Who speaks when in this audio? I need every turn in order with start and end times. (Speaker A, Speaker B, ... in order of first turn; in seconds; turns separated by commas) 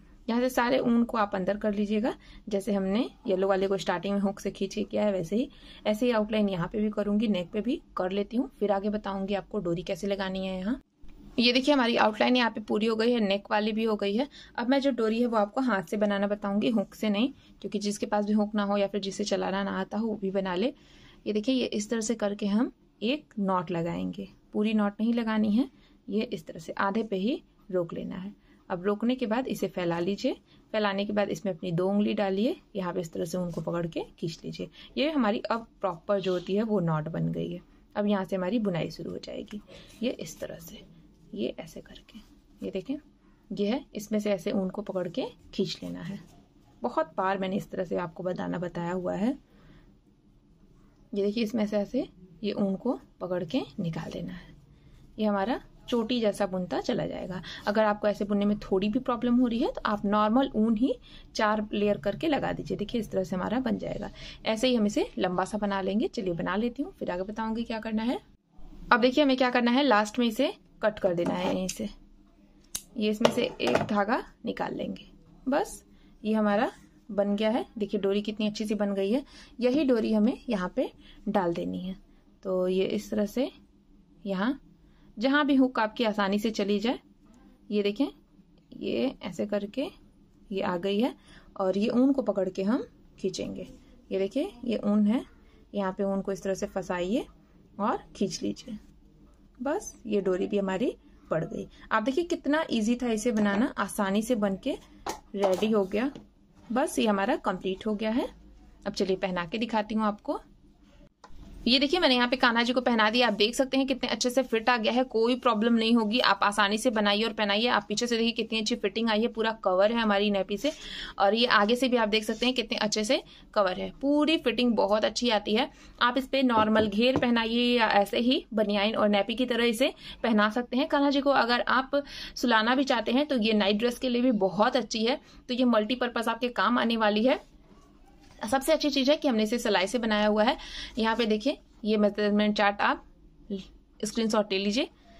Speaker A: 0.3-10.8, Speaker A: 11.4-20.7, Speaker A: 21.2-46.2, Speaker A: 46.8-49.4, Speaker A: 51.1-54.5, Speaker A: 55.2-68.2, Speaker A: 68.9-71.9, Speaker A: 73.0-83.5, Speaker A: 84.2-84.6, Speaker A: 85.2-87.0, Speaker A: 87.7-88.1, Speaker A: 88.7-89.9, Speaker A: 90.5-97.2, Speaker A: 97.8-98.8, Speaker A: 99.6-104.8, Speaker A: 105.3-106.1, Speaker A: 106.7-108.3, Speaker A: 108.8-110.4, Speaker A: 111.7-137.4, Speaker A: 138.4-144.9